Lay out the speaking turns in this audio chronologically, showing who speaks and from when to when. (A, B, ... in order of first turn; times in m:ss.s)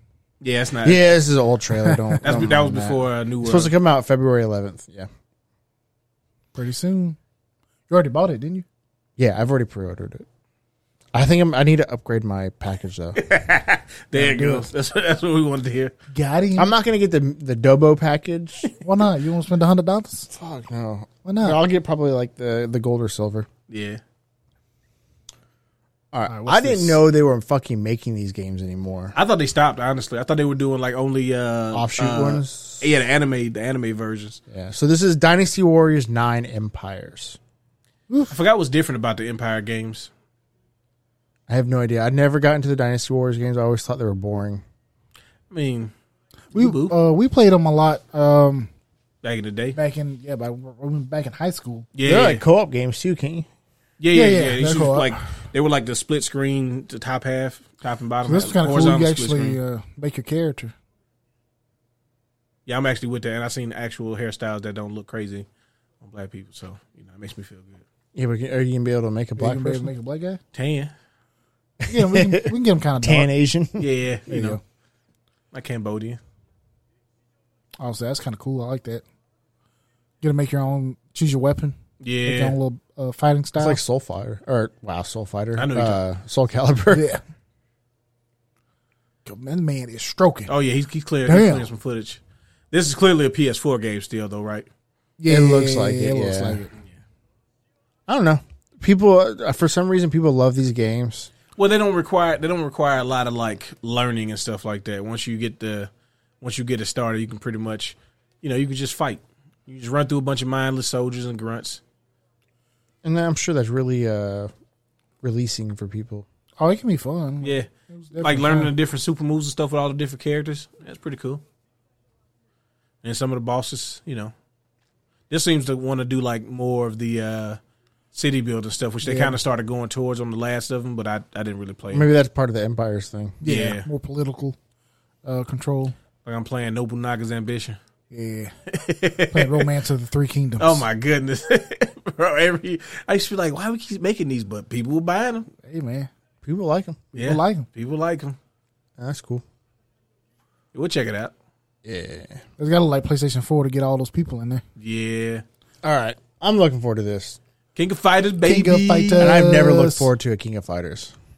0:00.4-0:01.1 A
0:00.8-0:05.1 B
0:01.8-0:02.3 C
0:02.2-0:03.7 A
0:06.5-0:07.2 C
0:07.9-0:08.6 C
0:09.2-0:10.2 B
0:11.1-0:13.2 B
0:13.1-0:15.9 A
0:14.1-0:14.7 C
0:16.1-0:16.7 C
0:16.6-0:18.6 B
0:18.8-0:20.3 C
0:20.3-0:23.5 B
0:21.2-0:21.6 C
0:23.7-0:24.0 A
0:26.1-0:29.1 B
0:26.3-0:27.0 C
0:29.1-0:34.4 A
0:31.7-0:32.9 B
0:34.5-0:37.4 B
0:38.3-0:40.1 A
0:41.5-0:44.6 B
0:45.5-0:45.9 A
0:46.5-0:46.9 A
0:46.5-0:48.7 C
0:49.2-0:49.8 A
0:49.7-0:51.9 C
0:51.9-0:52.4 A
0:52.0-0:53.5 B
0:54.0-0:59.6 A
0:54.1-0:55.2 C
0:58.2-1:00.7 C
1:02.6-1:05.5 A
1:06.0-1:07.8 A
1:08.1-1:09.9 B
1:09.4-1:10.4 C
1:10.5-1:10.9 A
1:11.8-1:13.8 B
1:11.9-1:13.3 C
1:13.8-1:14.6 A
1:14.3-1:14.6 C
1:15.5-1:16.2 A
1:17.8-1:19.0 C
1:20.2-1:23.8 C
1:22.0-1:22.6 A
1:23.6-1:27.0 B
1:25.6-1:26.0 A
1:26.9-1:27.2 C
1:29.2-1:30.5 C
1:30.5-1:34.7 A
1:31.2-1:31.7 C
1:35.2-1:36.7 C
1:35.3-1:36.6 B
1:38.1-1:41.3 B
1:41.5-1:45.9 A
1:46.4-1:51.8 A
1:53.0-1:54.5 B
1:55.2-1:56.2 B
1:56.6-1:58.7 C
1:57.4-2:01.4 A
2:03.0-2:04.3 A
2:05.3-2:07.6 A
2:08.1-2:12.1 A
2:09.0-2:09.4 C
2:11.9-2:13.4 B
2:13.4-2:14.6 C
2:13.4-2:13.9 A
2:15.2-2:15.9 C
2:16.2-2:17.8 A
2:18.1-2:18.5 C
2:18.7-2:19.7 A
2:19.3-2:20.8 C
2:20.6-2:25.5 A
2:25.6-2:26.1 C
2:26.4-2:27.0 B
2:27.1-2:27.7 C
2:27.1-2:28.4 A
2:29.0-2:29.4 B
2:30.7-2:31.3 A
2:31.8-2:32.4 B
2:32.6-2:34.6 C
2:34.8-2:35.4 A
2:35.8-2:37.4 B
2:37.8-2:39.4 A
2:38.4-2:40.1 C
2:39.2-2:41.1 B